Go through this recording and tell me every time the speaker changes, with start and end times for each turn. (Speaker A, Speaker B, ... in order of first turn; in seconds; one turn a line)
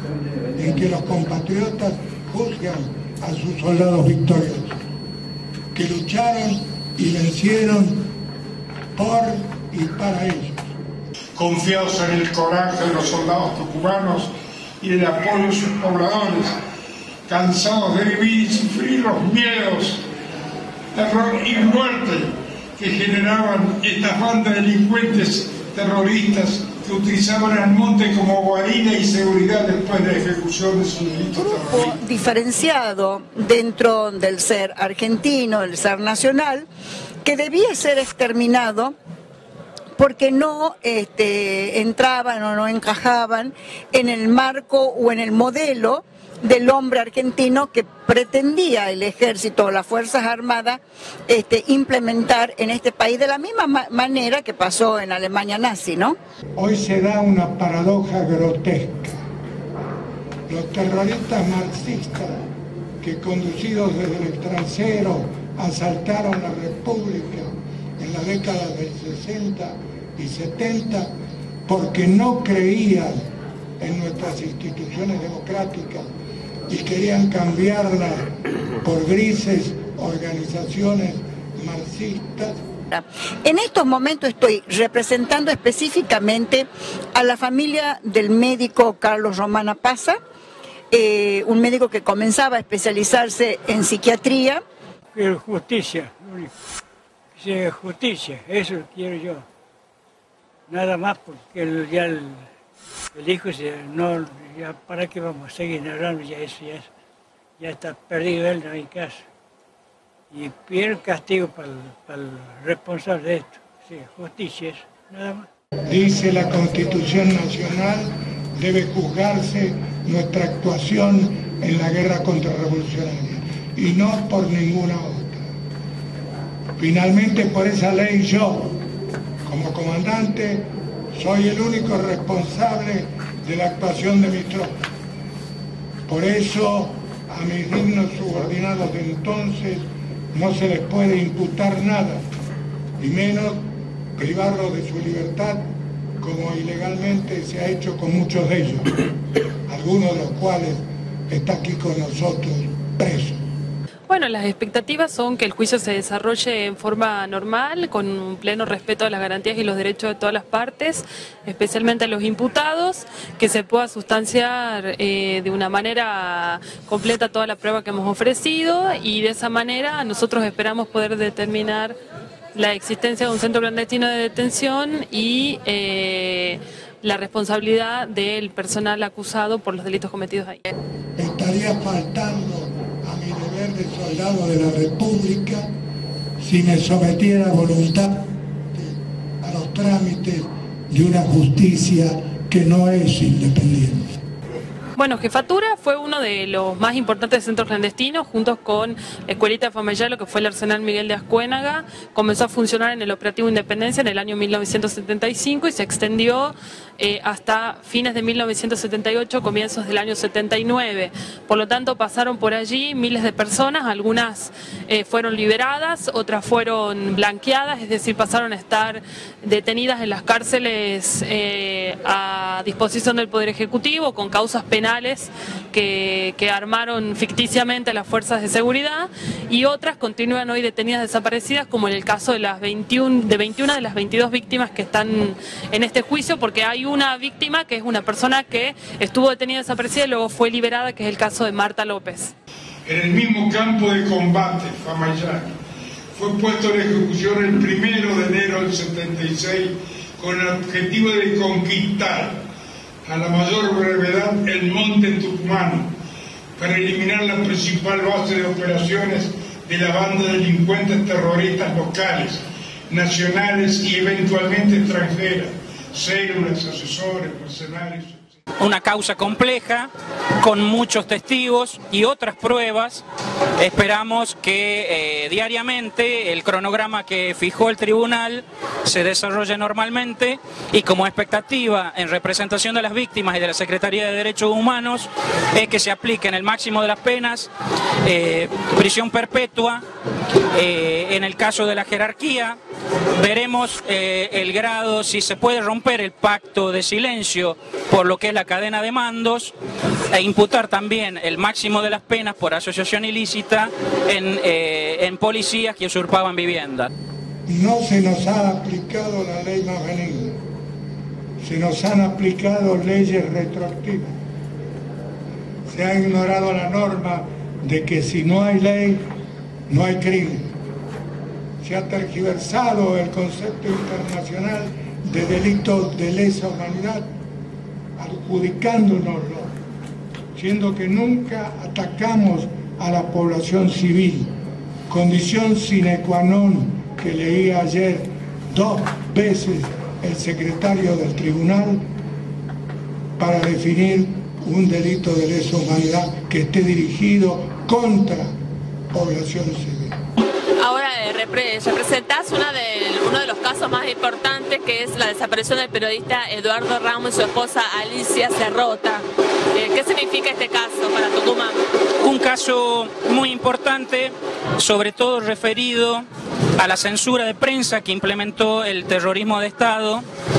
Speaker A: 0.6-4.8
Speaker A: 5.7-8.1
Speaker A: 8.9-10.8
Speaker B: 11.4-16.6
Speaker B: 17.3-20.0
Speaker B: 20.9-31.9
Speaker C: 31.4-36.7
Speaker C: 37.2-39.0
Speaker C: 40.0-56.2
Speaker A: 56.6-59.2
Speaker A: 60.5-62.4
Speaker A: 63.0-71.1
Speaker A: 71.7-76.1
Speaker A: 76.7-82.6
Speaker C: 82.9-90.2
Speaker C: 90.9-94.6
Speaker D: 95.1-96.5
Speaker D: 97.4-99.5
Speaker D: 100.7-102.5
Speaker D: 103.1-106.9
Speaker D: 107.6-109.3
Speaker D: 110.3-115.5
Speaker A: 115.9-125.5
Speaker A: 126.8-128.8
Speaker A: 129.4-134.8
Speaker A: 136.1-142.3
Speaker A: 143.0-145.7
Speaker A: 146.2-148.9
Speaker A: 149.7-153.4
Speaker E: 154.1-172.0
Speaker E: 172.5-180.7
Speaker A: 181.2-185.7
Speaker A: 186.4-194.2
Speaker E: 195.0-242.3
Speaker B: 242.9-245.5
Speaker B: 246.1-252.4
Speaker B: 253.1-255.9
Speaker B: 256.6-268.2
Speaker F: 268.6-273.0
Speaker F: 273.6-287.5
Speaker F: 288.0-289.8
Speaker F: 290.5-292.6
Speaker F: 293.1-299.5
Speaker F: 300.1-306.9
Speaker A: 307.5-310.4
Speaker A: 311.4-314.2
Speaker A: 315.7-319.1
Speaker A: 319.7-320.6
Speaker A: 321.6-327.1
Speaker A: 328.0-329.6
Speaker A: 330.3-334.4
Speaker A: 334.9-341.8
Speaker A: 343.2-348.3
Speaker A: 348.9-350.0
Speaker G: 350.6-361.6
Speaker F: 362.0-366.1
Speaker F: 366.6-370.0